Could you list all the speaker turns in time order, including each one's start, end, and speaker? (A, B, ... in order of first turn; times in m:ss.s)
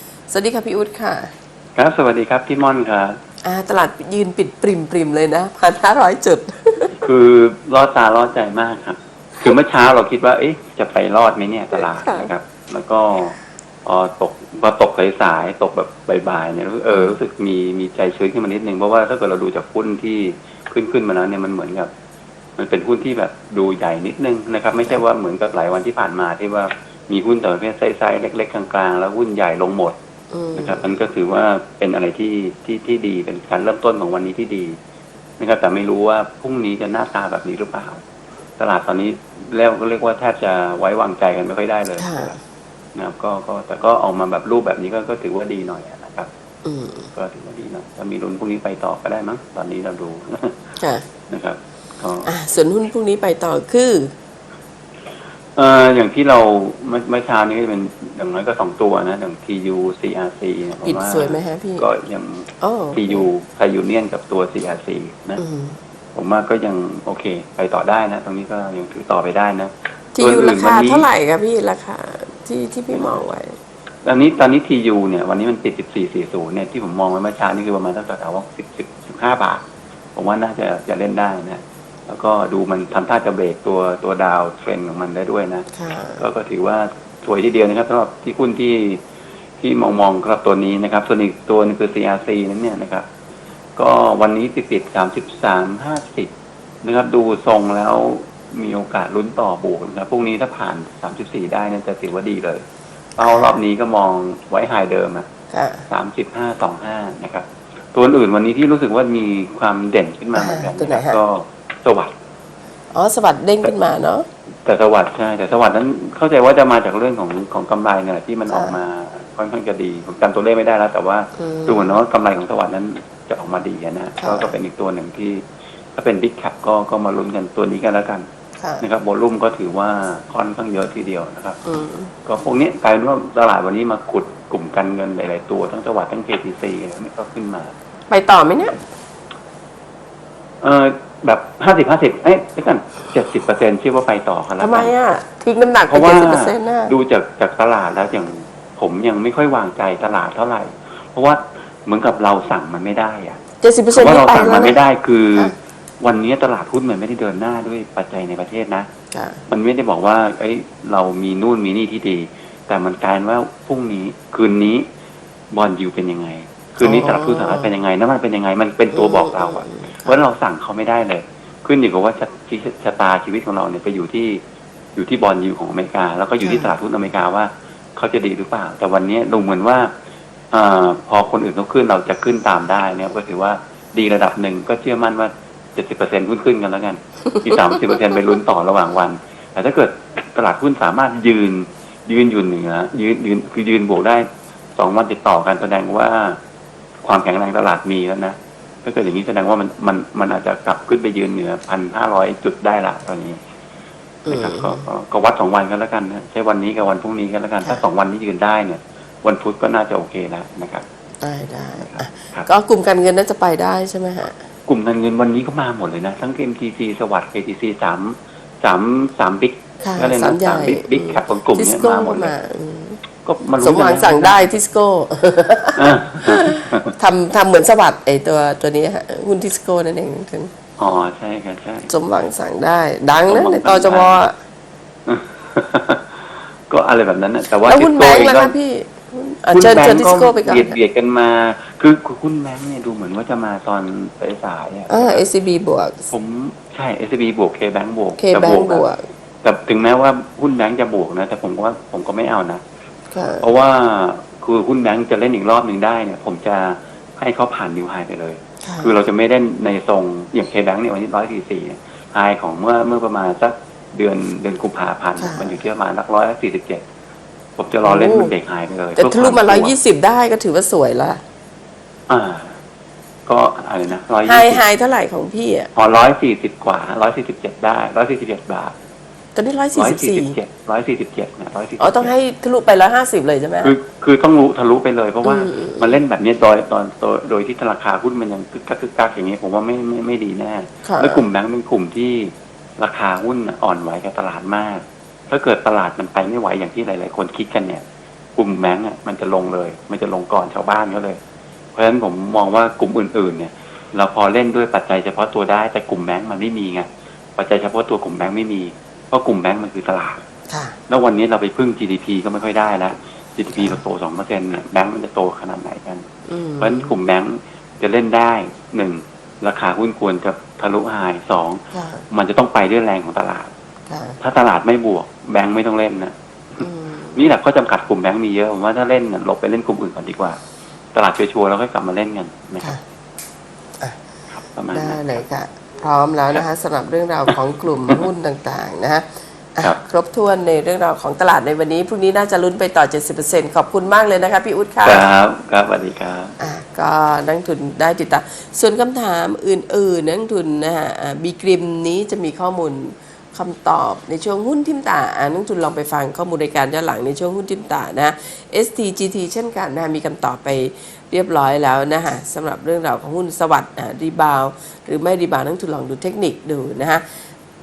0:00.3-0:01.3 A
0:01.8-0:03.2 B
0:03.4-0:06.9 A
0:06.9-0:21.9 B
0:11.8-0:12.3 A
0:16.9-0:17.2 A
0:22.6-0:30.0 B
0:24.7-0:25.0 A
0:30.3-0:30.8 A
0:30.6-0:34.8 B
0:35.4-0:38.0 B
0:38.6-0:42.3 B
0:42.0-0:42.4 A
0:42.9-0:46.3 B
0:46.6-0:47.1 A
0:47.1-0:50.8 B
0:50.8-0:51.0 A
0:51.3-0:52.3 B
0:52.2-0:54.1 A
0:55.6-1:05.4 B
1:00.8-1:01.8 A
1:02.6-1:03.2 A
1:05.4-1:05.8 A
1:06.1-1:11.0 B
1:10.2-1:13.6 A
1:12.9-1:13.2 B
1:14.0-1:19.6 B
1:20.1-1:25.7 B
1:25.7-1:26.2 A
1:26.2-1:29.0 B
1:29.6-1:33.0 B
1:33.8-1:36.3 B
1:36.8-1:42.6 B
1:43.2-1:45.2 B
1:43.2-1:43.6 A
1:45.5-1:45.8 A
1:45.9-1:52.1 B
1:50.3-1:51.2 A
1:52.9-1:54.3 A
1:54.6-2:08.2 B
1:58.5-1:58.8 A
2:01.4-2:02.0 A
2:04.2-2:04.5 A
2:08.6-2:08.8 A
2:08.8-2:11.6 B
2:11.6-2:12.1 A
2:12.2-2:17.7 B
2:18.1-2:18.8 A
2:20.6-2:24.9 B
2:24.6-2:26.9 A
2:25.9-2:33.4 B
2:33.6-2:34.8 A
2:33.9-2:38.9 B
2:39.1-2:39.4 A
2:39.5-2:44.8 B
2:45.5-2:54.4 B
2:46.8-2:47.7 A
2:48.9-2:50.2 A
2:55.0-2:59.9 B
2:56.4-2:56.7 A
3:00.5-3:16.4 B
3:17.0-3:23.4 B
3:24.3-3:24.8 A
3:24.3-3:30.8 B
3:31.2-3:34.4 A
3:31.8-3:32.5 B
3:34.7-3:42.3 B
3:39.8-3:43.0 A
3:43.2-3:44.5 B
3:43.6-3:50.5 A
3:45.8-3:46.9 B
3:50.8-3:51.9 B
3:51.9-3:54.3 A
3:53.3-3:54.2 B
3:55.0-3:58.5 B
3:57.6-4:00.8 A
3:59.5-4:05.2 B
4:04.9-4:06.0 A
4:06.1-4:08.9 B
4:08.2-4:09.0 A
4:09.4-4:12.6 B
4:13.1-4:13.5 A
4:13.4-4:26.8 B
4:18.6-4:18.9 A
4:25.2-4:25.5 A
4:27.6-4:29.7 B
4:27.8-4:28.3 A
4:29.0-4:31.2 A
4:32.1-4:32.6 B
4:33.2-4:34.6 B
4:34.2-4:35.7 A
4:35.7-4:38.7 B
4:39.3-4:40.4 A
4:39.7-4:42.1 B
4:41.8-4:43.7 A
4:43.6-4:57.8 B
4:45.2-4:45.9 A
4:50.8-4:51.2 A
4:58.4-5:01.2 B
5:01.7-5:10.2 B
5:10.5-5:10.8 A
5:10.9-5:16.0 B
5:16.3-5:16.9 A
5:16.6-5:23.5 B
5:21.7-5:22.0 A
5:23.9-5:24.2 A
5:24.2-5:30.4 B
5:26.6-5:27.2 A
5:30.9-5:32.8 B
5:34.3-5:35.1 B
5:34.7-5:45.1 A
5:44.8-5:46.3 B
5:46.4-6:07.0 A